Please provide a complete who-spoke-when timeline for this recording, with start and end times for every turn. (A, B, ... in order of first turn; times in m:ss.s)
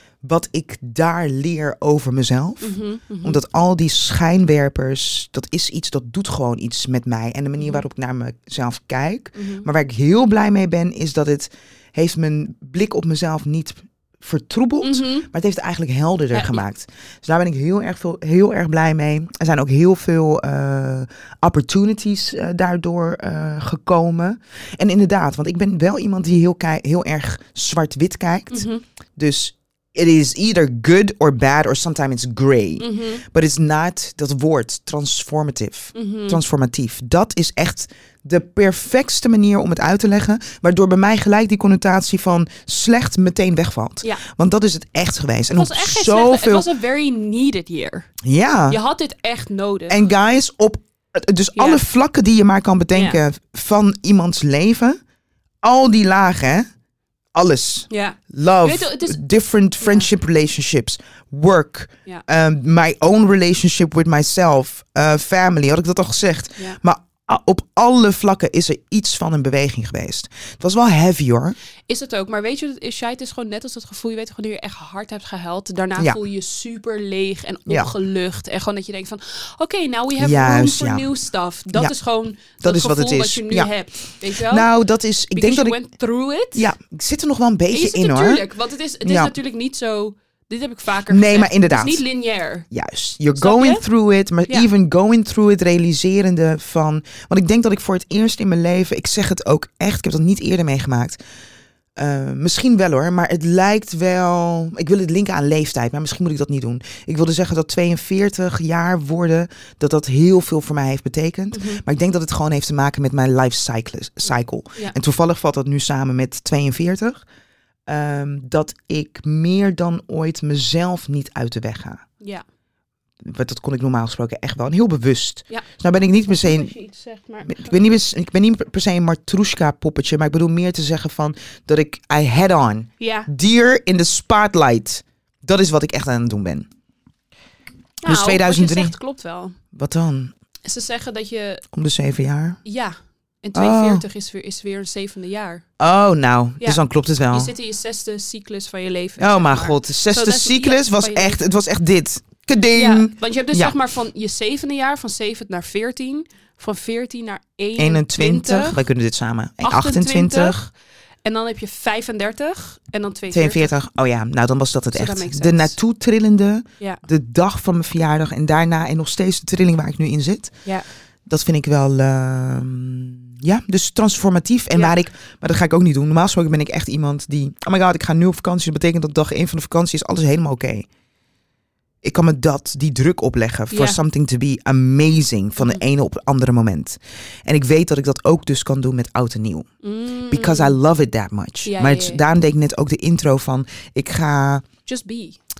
0:00.2-0:46.7 A
0:02.6-0:03.4 B
0:07.6-0:07.8 B
0:09.4-0:09.7 B
0:14.8-0:15.3 B
0:16.3-0:16.6 B
0:28.5-0:28.8 B
0:32.8-0:33.2 B
0:36.0-0:36.4 B
0:45.5-0:48.1 B
0:48.2-0:48.8 A
0:48.7-0:50.0 B
0:49.9-0:55.0 A
0:51.6-0:51.8 B
0:52.9-0:53.2 B
0:55.6-0:56.7 A
0:57.4-1:11.6 A
0:57.9-0:59.2 B
0:59.8-1:00.1 B
1:11.9-1:24.7 B
1:17.7-1:17.9 A
1:20.2-1:21.1 A
1:22.6-1:23.7 A
1:24.3-1:25.8 A
1:25.3-1:26.7 B
1:26.6-1:28.5 A
1:27.7-1:32.7 B
1:29.0-1:29.3 A
1:31.1-1:32.0 A
1:32.7-1:41.2 A
1:33.4-1:33.8 B
1:42.0-1:57.2 A
1:51.5-1:51.8 B
1:57.9-2:02.0 A
2:03.2-2:06.7 A
2:06.3-2:07.8 B
2:07.5-2:16.7 A
2:13.0-2:13.3 B
2:18.0-2:19.6 B
2:18.1-2:18.9 A
2:19.7-2:20.3 A
2:20.6-2:21.6 B
2:21.7-2:22.6 A
2:22.6-2:25.6 B
2:23.6-2:24.0 A
2:25.8-2:27.5 A
2:26.6-2:31.4 B
2:29.2-2:33.8 A
2:32.7-2:38.8 B
2:37.8-2:40.6 A
2:39.6-2:40.7 B
2:41.2-2:43.7 B
2:43.3-2:50.6 A
2:44.9-2:45.8 B
2:51.3-3:00.9 A
3:02.0-3:09.7 A
3:03.7-3:04.0 B
3:09.8-3:10.8 B
3:10.3-3:14.7 A
3:11.6-3:12.2 B
3:14.9-3:15.4 B